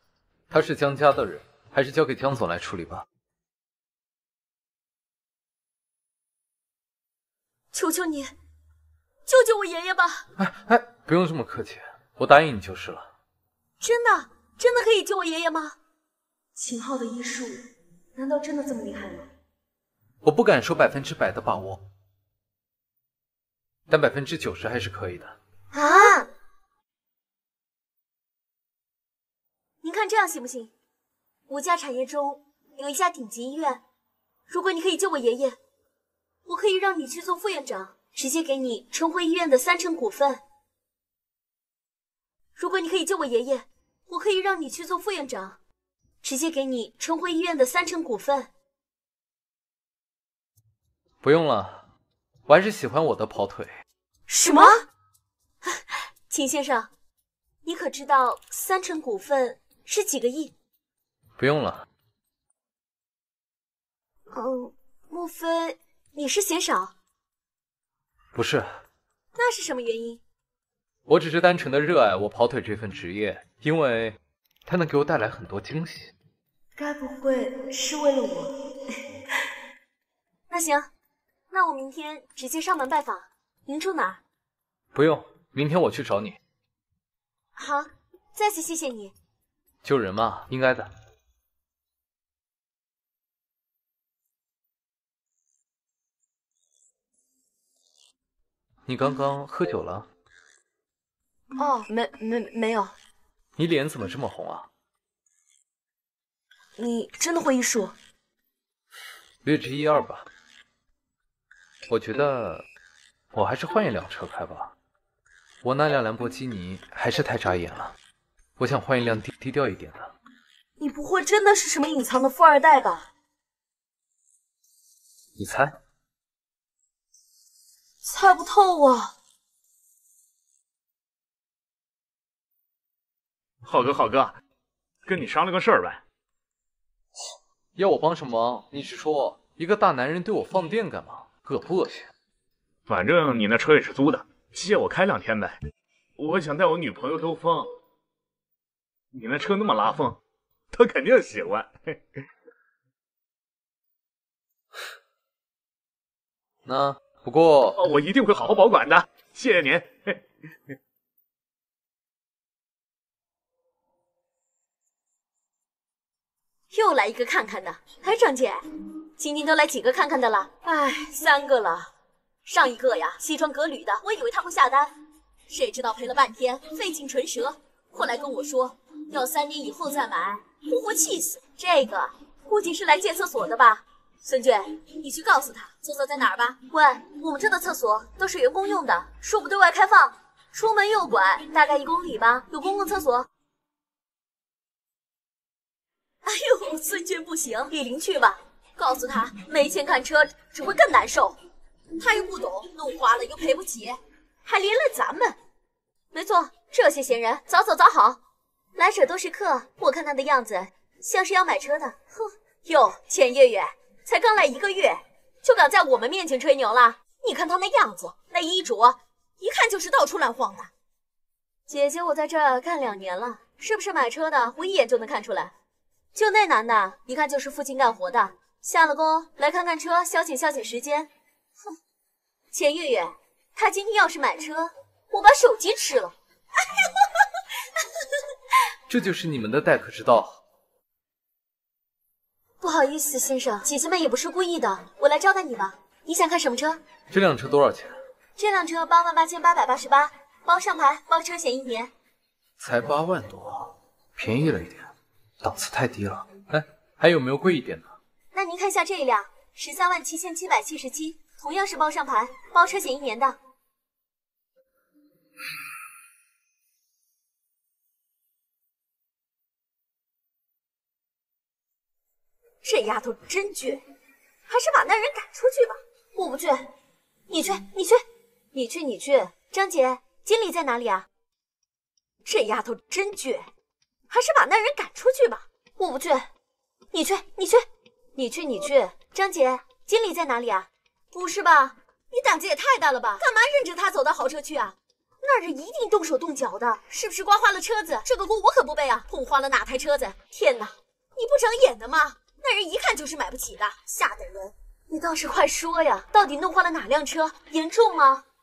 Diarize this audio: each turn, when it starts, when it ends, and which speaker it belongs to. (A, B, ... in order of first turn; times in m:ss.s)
0:00.5-0:03.0 A
0:07.7-0:08.3 B
0:09.2-0:10.2 B
0:10.4-0:13.1 A
0:13.8-0:15.8 B
0:16.6-0:17.6 B
0:18.2-0:19.3 B
0:20.2-0:21.8 A
0:23.9-0:25.3 A
0:25.7-0:26.3 B
0:29.8-0:30.7 B
0:31.5-0:33.8 B
0:34.5-0:35.6 B
0:36.4-0:40.4 B
0:42.6-0:45.6 B
0:46.2-0:48.5 B
0:51.2-0:51.8 A
0:52.4-0:53.7 A
0:54.3-0:54.8 B
0:55.6-0:56.9 B
0:57.6-1:00.5 B
1:01.4-1:01.8 A
1:04.3-1:06.9 B
1:08.3-1:08.7 A
1:09.3-1:10.2 B
1:11.1-1:16.1 A
1:16.8-1:18.5 B
1:20.5-1:20.9 B
1:21.5-1:24.2 B
1:24.9-1:26.4 A
1:27.6-1:29.1 B
1:29.8-1:30.9 A
1:38.8-1:40.1 A
1:41.5-1:42.9 B
1:43.6-1:44.7 A
1:46.8-1:47.9 B
1:49.4-1:50.2 A
1:51.9-1:52.6 A
1:53.3-1:54.7 A
1:55.6-1:57.9 A
1:58.6-2:00.1 A
2:00.8-2:03.1 B
2:05.4-2:05.7 A
2:08.0-2:09.1 B
2:13.6-2:14.3 C
2:15.0-2:16.0 C
2:17.8-2:22.1 A
2:22.9-2:25.6 C
2:26.2-2:27.7 C
2:29.1-2:30.2 C
2:30.7-2:32.0 C
2:36.6-2:37.8 A
2:37.8-2:40.2 C
2:46.7-2:48.6 B
2:49.2-2:51.9 B
2:52.4-2:54.9 B
2:55.5-3:13.3 B
3:16.2-3:21.4 B
3:22.0-3:25.4 B
3:26.1-3:28.2 B
3:28.8-3:40.7 B
3:41.7-3:45.5 B
3:46.1-3:51.1 B
3:52.5-3:56.1 B
3:58.9-4:00.4 A
4:02.6-4:06.8 B
4:07.1-4:08.0 A
4:08.4-4:11.9 B
4:12.6-4:14.9 A
4:15.4-4:17.9 A
4:18.3-4:23.4 B
4:32.6-4:33.8 B
4:34.5-4:36.7 B
4:37.3-4:41.1 B
4:42.2-4:43.4 B
4:44.1-4:46.3 B
4:46.9-5:08.2 B